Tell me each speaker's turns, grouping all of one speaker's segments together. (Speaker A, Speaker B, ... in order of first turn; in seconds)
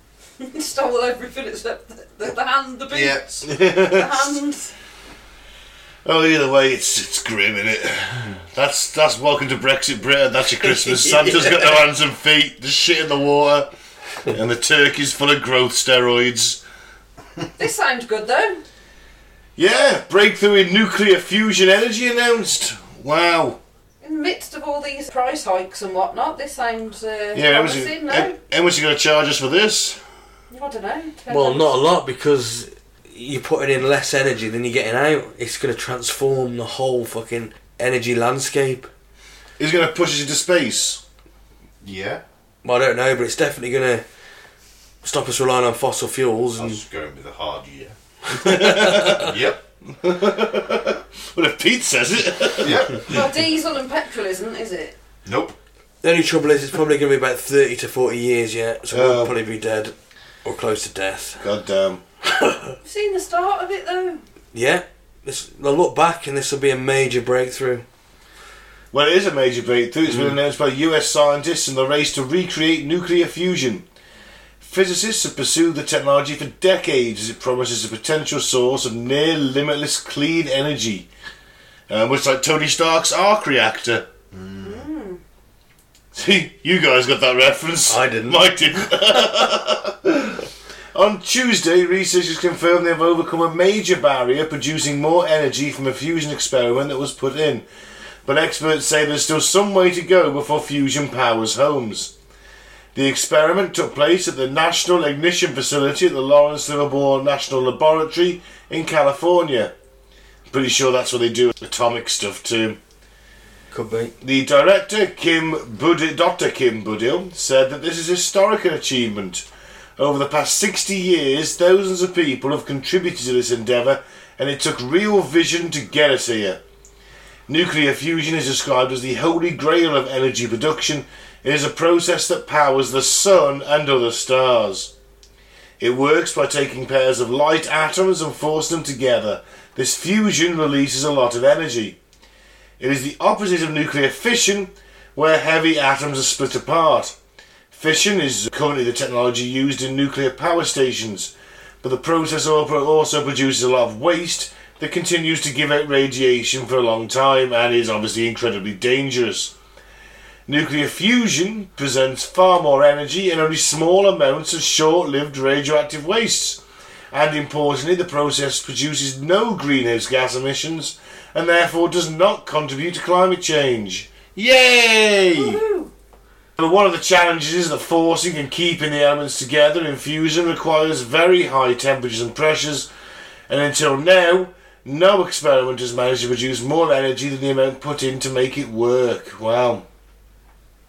Speaker A: 0.4-4.7, 17.6-18.6, 24.0-28.4, 30.5-31.8, 53.0-55.0, 62.8-64.2, 84.6-85.2, 175.3-175.9
Speaker B: 2.9-3.4, 41.8-42.2, 46.6-48.0, 49.0-49.6, 52.6-53.2, 55.3-55.6, 84.3-84.9
Speaker C: 3.4-4.4, 6.0-13.7, 14.3-16.6, 19.6-23.6, 27.3-30.0, 39.6-41.0, 48.3-49.3, 49.9-53.2, 58.9-59.3, 61.4-62.0, 68.9-73.8, 74.6-81.1, 81.9-84.1, 86.1-97.7, 98.2-102.1, 103.0-109.7, 110.5-112.8, 114.2-119.5, 120.0-126.6, 127.5-134.9, 135.8-142.0, 142.8-147.2, 147.7-159.5, 160.5-166.6, 167.1-175.6, 176.6-182.9, 183.5-189.8
Speaker D: 10.7-11.7, 31.3-38.9, 42.6-44.0, 45.0-46.8, 48.3-49.3, 56.0-59.9, 60.5-61.4, 62.2-62.8, 64.5-67.8, 70.1-70.4, 87.9-88.6, 113.7-114.1